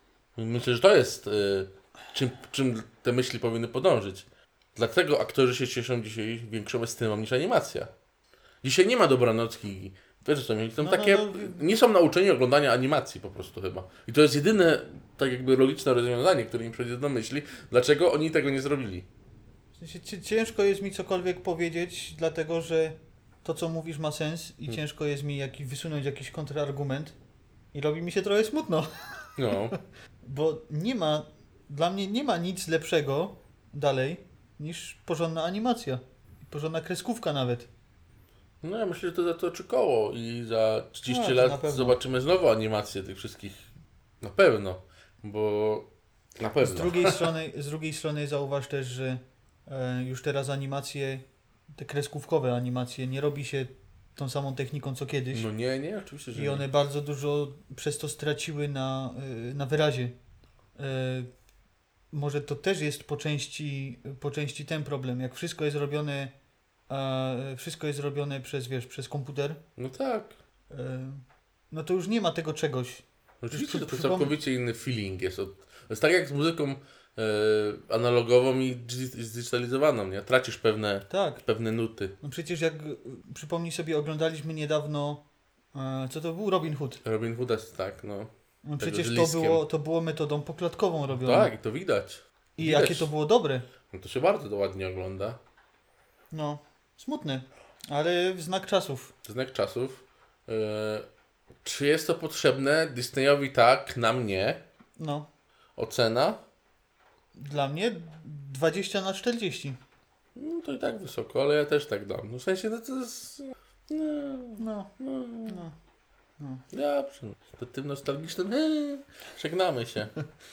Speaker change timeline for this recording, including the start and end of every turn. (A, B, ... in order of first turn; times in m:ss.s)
0:00.4-0:07.9 A
0:08.6-0:19.1 A
0:10.8-0:11.6 B
0:19.8-0:27.2 B
0:27.7-0:37.7 B
0:29.4-0:29.7 A
0:38.6-0:43.7 A
0:41.1-0:42.0 B
0:44.2-0:45.9 A
0:46.4-0:47.3 A
0:46.6-0:51.2 B
0:51.7-0:55.5 B
0:55.3-0:56.6 A
0:56.3-1:00.2 B
1:00.8-1:01.3 B
1:02.1-1:06.3 B
1:06.9-1:09.6 B
1:09.8-1:10.3 A
1:10.7-1:14.3 B
1:13.4-1:22.1 A
1:21.1-1:21.4 B
1:22.2-1:27.0 B
1:27.0-1:29.6 A
1:28.6-1:31.5 B
1:31.1-1:33.1 A
1:32.6-1:33.6 B
1:33.9-1:35.4 A
1:36.3-1:39.1 B
1:39.2-1:41.0 A
1:41.6-1:44.6 A
1:45.0-1:45.3 B
1:45.8-1:46.4 A
1:47.4-1:49.8 B
1:50.4-1:55.6 A
1:54.6-1:54.9 B
1:55.5-1:55.7 B
1:56.4-1:56.6 B
1:56.7-2:00.1 A